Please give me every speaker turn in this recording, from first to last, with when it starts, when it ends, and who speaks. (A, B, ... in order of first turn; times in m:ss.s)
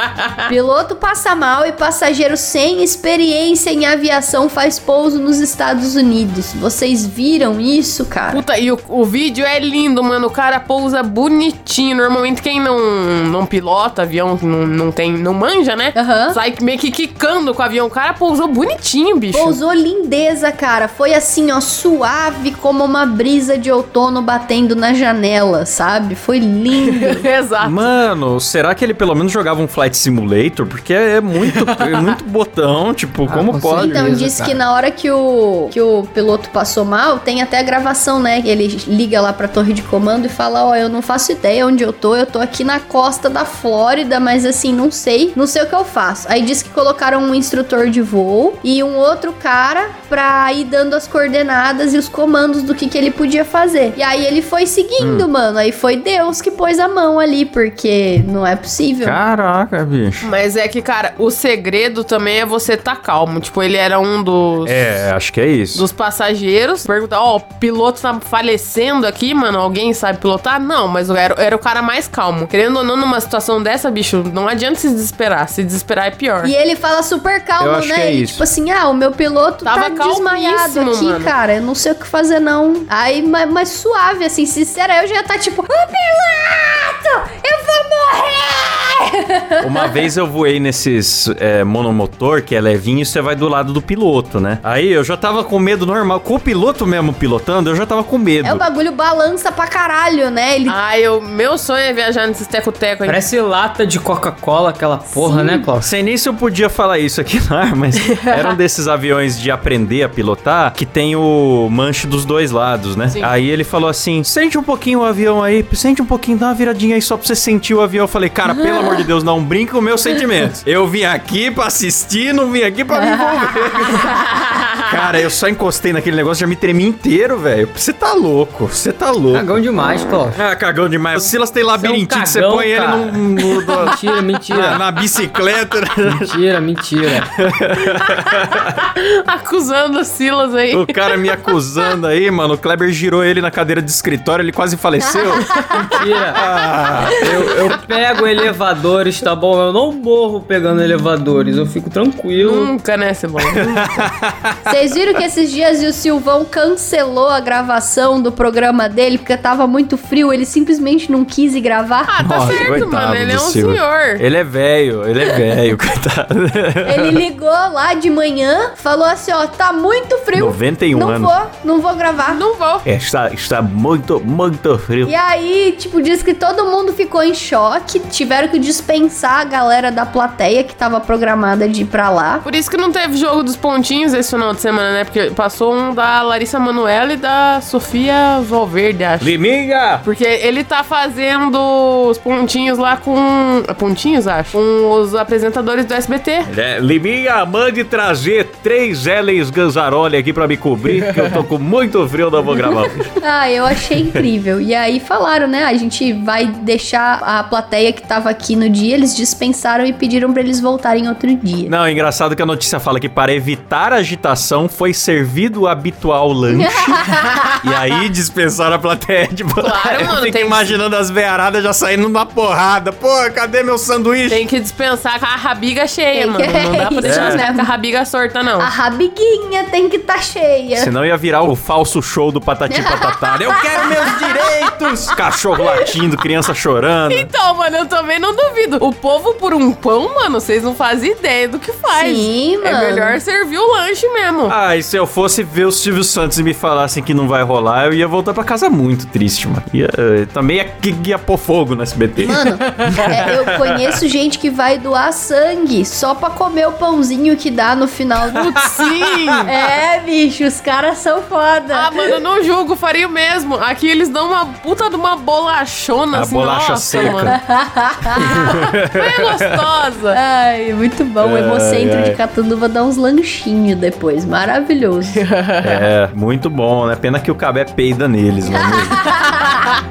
0:00.5-0:08.4 A
0:08.3-0:19.6 B
0:16.0-0:16.4 A
0:19.3-0:27.3 A
0:26.8-0:27.9 B
0:27.6-0:34.0 C
0:31.8-0:32.1 B
0:33.2-0:34.6 D
0:33.8-0:59.2 A
0:55.0-0:55.3 C
0:59.0-1:00.3 C
1:00.2-1:05.1 B
1:04.6-1:05.8 C
1:05.7-1:16.5 B
1:16.4-1:30.0 A
1:17.6-1:18.5 C
1:19.6-1:21.3 B
1:29.6-1:38.6 C
1:38.4-1:40.8 A
1:40.7-1:43.2 B
1:43.0-1:45.9 D
1:45.1-1:45.7 A
1:45.8-2:04.3 C
1:48.2-1:48.5 B
1:58.5-1:59.1 A
2:02.9-2:04.0 A
2:04.8-2:09.5 C
2:09.3-2:10.4 D
2:10.4-2:16.3 C
2:11.8-2:14.8 D
2:16.0-2:17.3 D
2:17.4-2:18.8 C
2:17.9-2:21.6 B
2:20.7-2:25.6 C
2:25.1-2:25.4 A
2:25.8-2:26.4 D
2:26.4-2:27.7 C
2:27.1-2:32.7 D
2:32.4-2:34.1 B
2:33.5-2:34.8 C
2:34.7-2:42.1 A
2:42.1-2:44.2 B
2:42.2-2:47.2 C
2:46.8-2:52.4 A
2:50.3-2:51.3 C
2:52.3-2:52.8 B
2:52.8-2:55.2 C
2:55.0-3:02.4 A
3:02.4-3:09.4 B
3:09.2-3:10.0 C
3:10.0-3:16.5 B
3:16.5-3:23.1 C
3:22.7-3:31.7 A
3:31.7-3:37.0 C
3:36.5-3:37.6 A
3:37.6-3:44.4 C
3:39.6-3:40.8 B
3:44.3-3:48.7 B
3:46.1-3:47.7 A
3:47.0-3:47.4 C
3:48.6-3:50.9 A
3:50.8-3:57.3 C
3:52.7-3:54.5 A
3:55.6-3:55.9 A
3:57.1-4:04.5 B
4:01.9-4:03.2 A
4:04.5-4:13.7 C
4:12.2-4:18.7 A
4:18.4-4:19.5 B
4:19.4-4:21.9 A
4:21.7-4:27.4 B
4:26.1-4:27.4 C
4:27.0-4:28.5 A
4:28.2-4:29.0 C
4:28.2-4:30.2 B
4:30.1-4:35.2 A
4:31.2-4:32.2 C
4:35.1-4:35.9 B
4:35.6-4:39.1 C
4:38.5-4:39.5 A
4:39.1-4:39.8 B